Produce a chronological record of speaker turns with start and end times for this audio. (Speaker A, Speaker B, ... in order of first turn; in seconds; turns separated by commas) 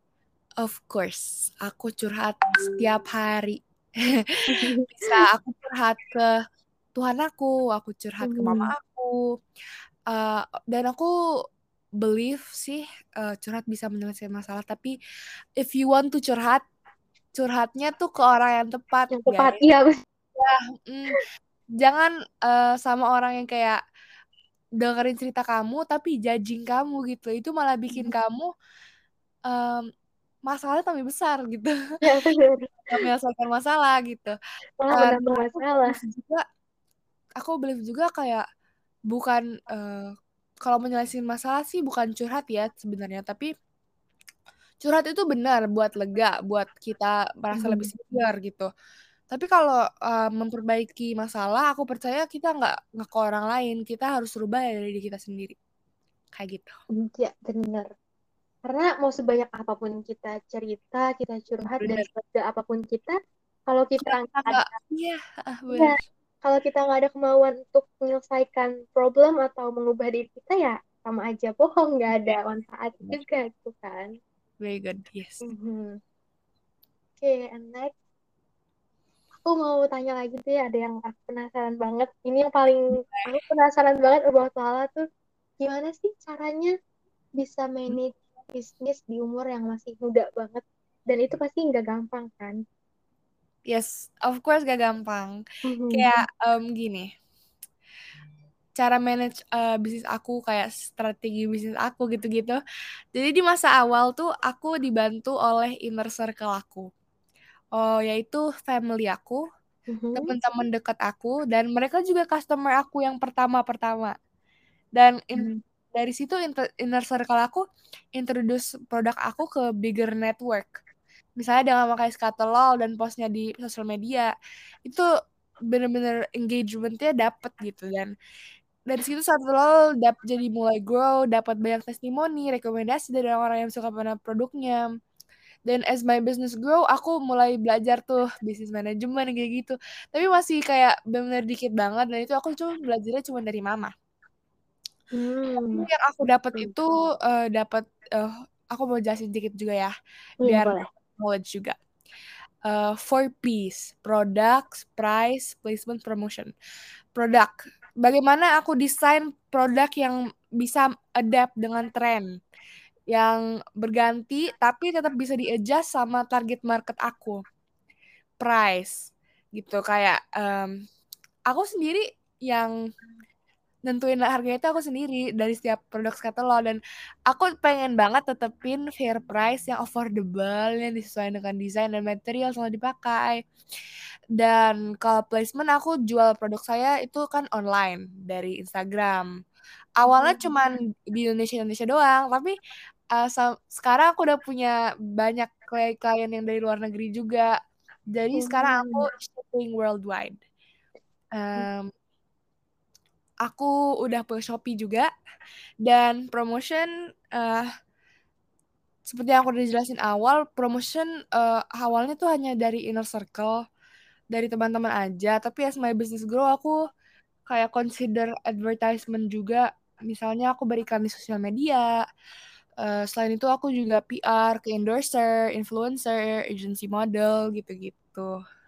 Speaker A: 0.6-6.3, Speaker B: 4.5-5.2, Speaker A: 6.9-9.3, Speaker B: 8.2-8.7, Speaker A: 10.1-11.1, Speaker A: 12.0-14.9, Speaker A: 15.6-16.6, Speaker A: 17.3-19.6, Speaker B: 19.1-19.9, Speaker A: 20.3-21.2, Speaker A: 21.8-23.8, Speaker A: 24.8-28.5, Speaker A: 29.5-29.9, Speaker A: 30.4-31.7, Speaker B: 32.0-33.0, Speaker A: 32.9-34.4, Speaker B: 34.8-36.0, Speaker A: 34.9-36.4, Speaker A: 37.4-38.4, Speaker A: 39.1-40.1, Speaker A: 40.6-43.5, Speaker A: 44.8-48.7, Speaker B: 47.5-47.9, Speaker A: 49.3-55.5, Speaker A: 56.3-56.8, Speaker B: 57.0-57.9, Speaker B: 58.7-63.1, Speaker A: 61.8-62.0, Speaker B: 63.7-64.7, Speaker A: 64.0-66.0, Speaker B: 65.7-74.1, Speaker A: 74.6-75.5, Speaker B: 75.4-75.9, Speaker B: 77.2-77.9, Speaker B: 79.4-85.0, Speaker A: 82.9-83.3, Speaker B: 85.6-86.7, Speaker B: 87.4-92.6, Speaker A: 93.7-95.4, Speaker B: 95.7-96.1, Speaker A: 95.9-97.1, Speaker A: 98.8-102.6, Speaker A: 103.1-106.8, Speaker A: 107.7-109.4, Speaker B: 109.9-110.3, Speaker A: 110.1-114.1, Speaker A: 115.0-117.6, Speaker B: 115.3-115.6, Speaker A: 118.2-120.7, Speaker A: 121.4-124.3, Speaker A: 125.7-128.1, Speaker A: 128.9-134.8, Speaker A: 135.7-143.9, Speaker B: 145.2-145.8, Speaker A: 145.7-149.9, Speaker B: 150.4-150.8, Speaker A: 150.4-151.7, Speaker A: 152.6-156.5, Speaker A: 157.1-162.3, Speaker A: 163.1-167.4, Speaker A: 168.4-170.7, Speaker A: 171.5-172.7, Speaker A: 173.8-176.8, Speaker A: 177.3-183.4, Speaker A: 184.4-189.3, Speaker A: 190.0-192.5, Speaker B: 190.1-190.5, Speaker A: 193.1-197.5, Speaker A: 198.1-200.4, Speaker B: 198.3-199.1, Speaker A: 201.3-201.9, Speaker A: 203.4-205.1, Speaker A: 205.8-207.7, Speaker A: 209.1-213.6, Speaker A: 214.3-216.8, Speaker A: 217.5-221.9, Speaker A: 222.8-228.3